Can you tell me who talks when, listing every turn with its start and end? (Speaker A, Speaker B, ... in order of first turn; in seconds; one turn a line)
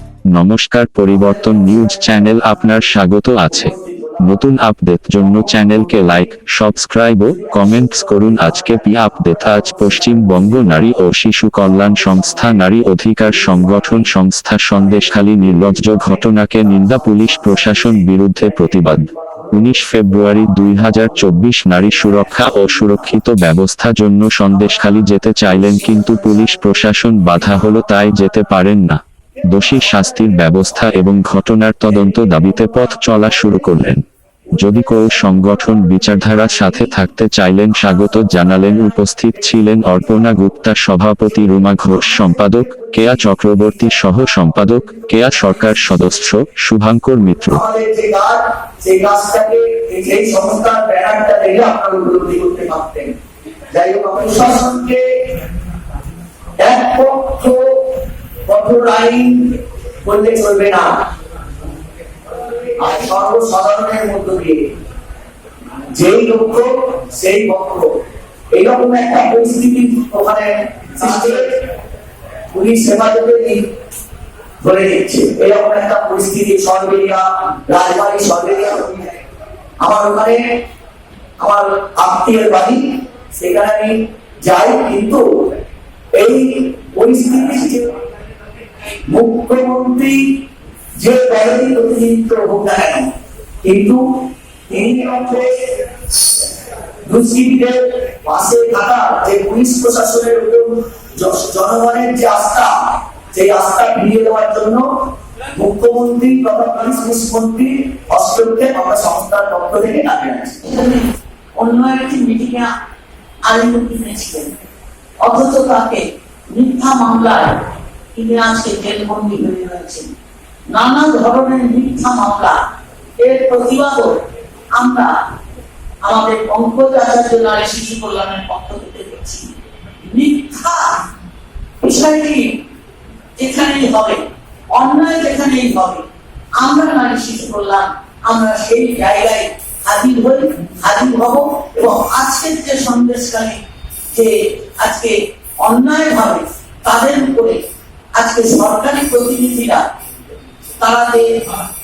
Speaker A: 0.3-47.6
Speaker B: 3.6-4.1
Speaker B: 7.6-7.9
Speaker C: 47.8-48.3
Speaker B: 48.8-53.0
Speaker C: 48.9-49.4
Speaker C: 50.0-50.8
Speaker C: 52.1-53.0
Speaker B: 53.7-54.3
Speaker C: 53.8-55.0
Speaker B: 56.6-57.4
Speaker C: 56.7-57.6
Speaker C: 58.5-59.3
Speaker B: 58.5-59.0
Speaker B: 60.1-60.9
Speaker C: 62.8-63.6
Speaker B: 63.0-64.5
Speaker B: 66.0-67.9
Speaker C: 66.1-66.5
Speaker B: 68.5-71.4
Speaker C: 71.0-71.4
Speaker B: 72.5-73.6
Speaker B: 74.6-79.1
Speaker B: 79.8-80.4
Speaker B: 81.4-82.8
Speaker B: 83.3-83.9
Speaker C: 83.5-83.8
Speaker B: 84.4-85.2
Speaker B: 86.2-87.8
Speaker B: 89.1-90.1
Speaker C: 89.8-90.1
Speaker B: 91.0-93.1
Speaker C: 92.0-92.7
Speaker B: 93.6-95.5
Speaker B: 97.1-104.8
Speaker B: 105.5-110.6
Speaker C: 110.6-112.7
Speaker C: 113.5-114.5
Speaker C: 115.2-117.6
Speaker C: 118.1-120.1
Speaker C: 120.7-122.5
Speaker C: 123.2-124.2
Speaker C: 124.8-125.1
Speaker C: 126.0-129.5
Speaker C: 130.0-130.8
Speaker C: 131.8-132.5
Speaker C: 133.4-134.2
Speaker C: 134.7-136.1
Speaker C: 136.6-143.6
Speaker C: 144.1-147.6
Speaker C: 148.1-149.8
Speaker C: 150.8-151.3